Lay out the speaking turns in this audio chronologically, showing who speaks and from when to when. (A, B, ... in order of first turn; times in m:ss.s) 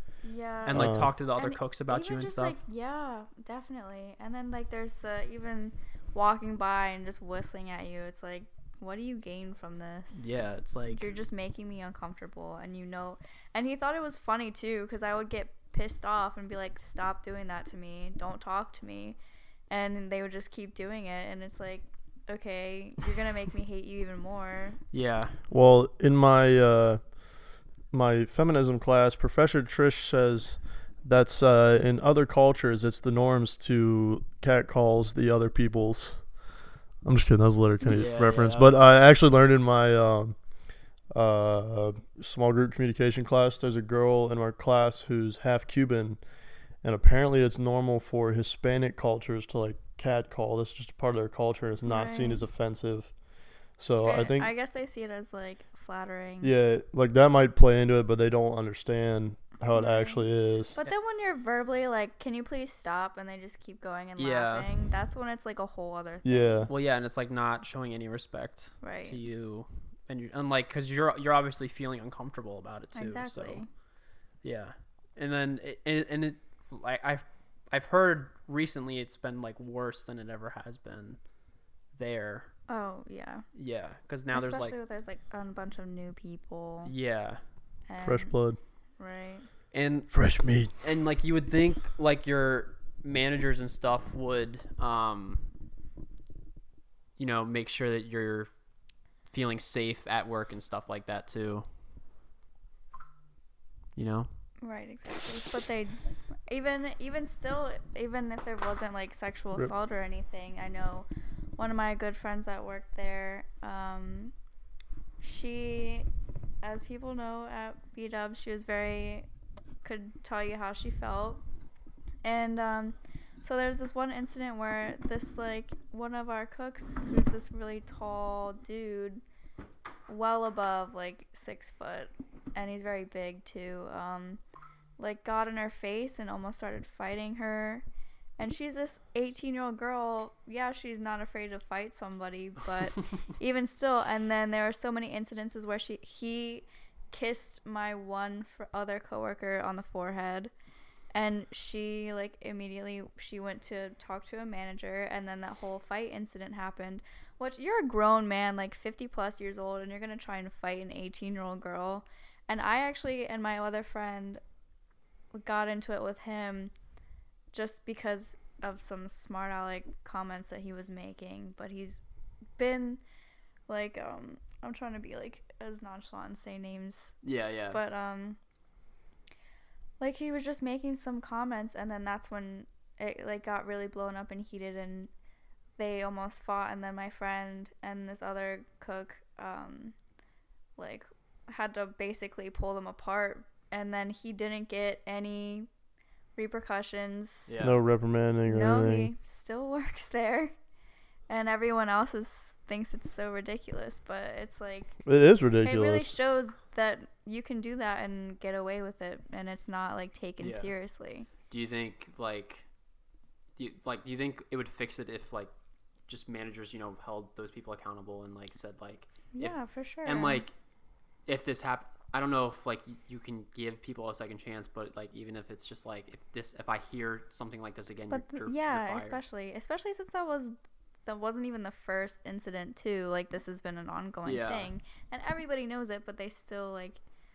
0:00.2-0:10.4 A
0:00.7-0:02.6 B
0:00.7-0:01.1 C
0:10.2-0:11.1 B
0:10.9-0:19.2 A
0:19.7-0:24.8 A
0:24.9-0:25.4 B
0:25.5-0:27.0 C
0:27.9-0:36.3 C
0:37.0-0:40.4 C
0:37.9-0:38.8 B
0:41.1-0:46.2 C
0:46.8-0:53.1 C
0:51.8-0:52.4 A
0:53.8-0:54.5 C
0:54.0-0:56.6 A
0:56.4-1:00.8 C
0:59.7-1:06.7 A
1:04.2-1:04.8 B
1:06.2-1:06.7 C
1:06.7-1:13.6 B
1:08.8-1:09.2 A
1:13.0-1:13.7 A
1:14.4-1:21.2 B
1:22.0-1:22.5 B
1:22.7-1:23.4 A
1:23.6-1:24.8 B
1:24.3-1:26.9 A
1:26.8-1:27.4 B
1:27.9-1:28.4 A
1:28.0-1:28.6 C
1:29.0-1:29.5 A
1:29.7-1:30.2 B
1:30.1-1:30.7 C
1:30.8-1:35.5 B
1:37.2-1:38.5 B
1:39.3-1:41.7 B
1:44.0-1:44.3 B
1:44.6-1:54.3 A
1:55.2-1:56.1 A
1:56.6-1:59.3 A
1:59.8-2:01.4 A
2:02.2-2:09.2 A
2:10.1-2:14.4 A
2:15.0-2:17.8 A
2:18.4-2:30.5 A
2:31.1-2:44.4 A
2:45.3-2:46.7 A
2:47.5-2:52.0 A
2:52.6-2:53.0 A
2:53.7-2:57.2 A
2:57.2-2:57.8 B
2:57.7-2:58.4 A
3:00.0-3:05.1 A
3:05.8-3:10.0 A
3:10.8-3:15.7 A
3:16.4-3:17.5 A
3:17.5-3:17.8 B
3:17.6-3:19.1 C
3:18.4-3:20.5 A
3:21.3-3:24.9 A
3:25.0-3:26.2 C
3:25.6-3:31.3 A
3:30.4-3:30.7 B
3:31.5-3:32.6 B
3:33.6-3:35.5 B
3:36.1-3:40.5 B
3:39.3-3:40.4 A
3:41.3-3:49.2 B
3:48.1-3:50.6 A
3:51.1-3:57.0 A
3:54.2-3:54.7 B